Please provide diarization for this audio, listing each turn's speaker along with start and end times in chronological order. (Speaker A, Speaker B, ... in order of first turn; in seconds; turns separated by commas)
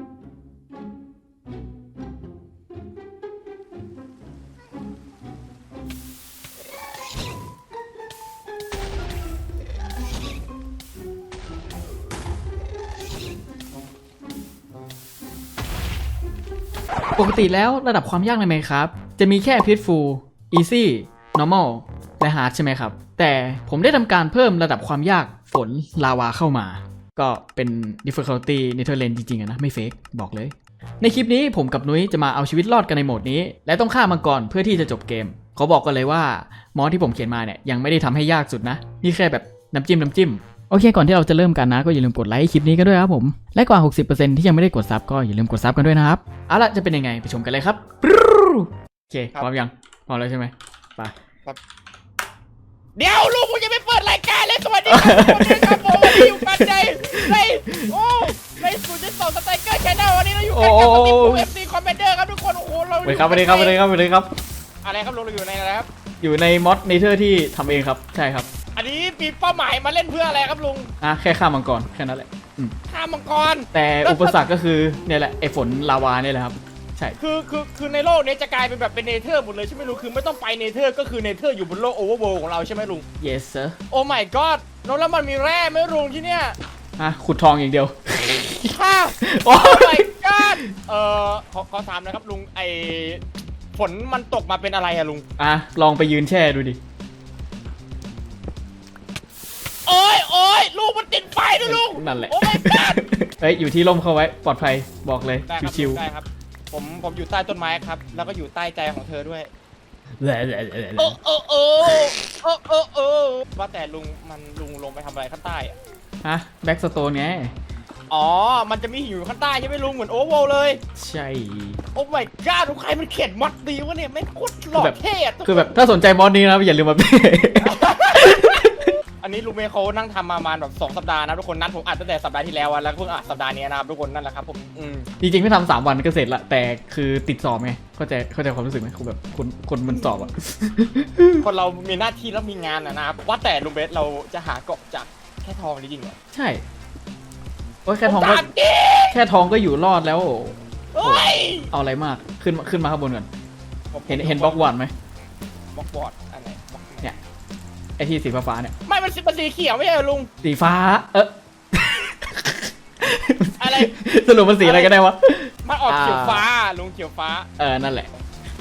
Speaker A: 17.2-51.1, Speaker B: 53.0-63.8, Speaker A: 54.9-58.3, Speaker A: 60.5-61.5, Speaker A: 63.0-64.3, Speaker B: 64.8-65.9, Speaker A: 66.2-68.5, Speaker B: 68.8-70.9, Speaker A: 71.0-72.8, Speaker B: 72.9-74.4, Speaker A: 73.7-77.2, Speaker B: 77.2-83.0, Speaker A: 83.2-83.8, Speaker B: 83.9-86.6, Speaker A: 87.0-90.7, Speaker B: 88.7-93.2, Speaker B: 93.8-95.2, Speaker A: 95.4-96.8, Speaker B: 99.9-103.0, Speaker A: 101.6-106.0, Speaker B: 105.5-109.5, Speaker A: 110.2-111.2, Speaker B: 111.0-115.8, Speaker A: 116.2-117.5, Speaker B: 118.1-120.8, Speaker A: 121.0-121.8, Speaker B: 122.0-125.7, Speaker A: 124.8-129.0, Speaker B: 127.6-135.1, Speaker A: 135.2-141.4, Speaker B: 139.9-140.2, Speaker B: 141.4-146.2, Speaker A: 146.3-146.6, Speaker A: 147.9-148.5, Speaker B: 148.1-149.2, Speaker A: 149.1-153.3, Speaker B: 150.9-151.7, Speaker B: 153.9-154.7, Speaker A: 154.1-154.9, Speaker B: 155.7-157.1, Speaker A: 158.0-158.7, Speaker B: 158.9-160.3, Speaker A: 160.4-166.4, Speaker B: 163.6-163.9, Speaker B: 164.6-164.9, Speaker B: 165.7-167.5, Speaker A: 167.6-168.1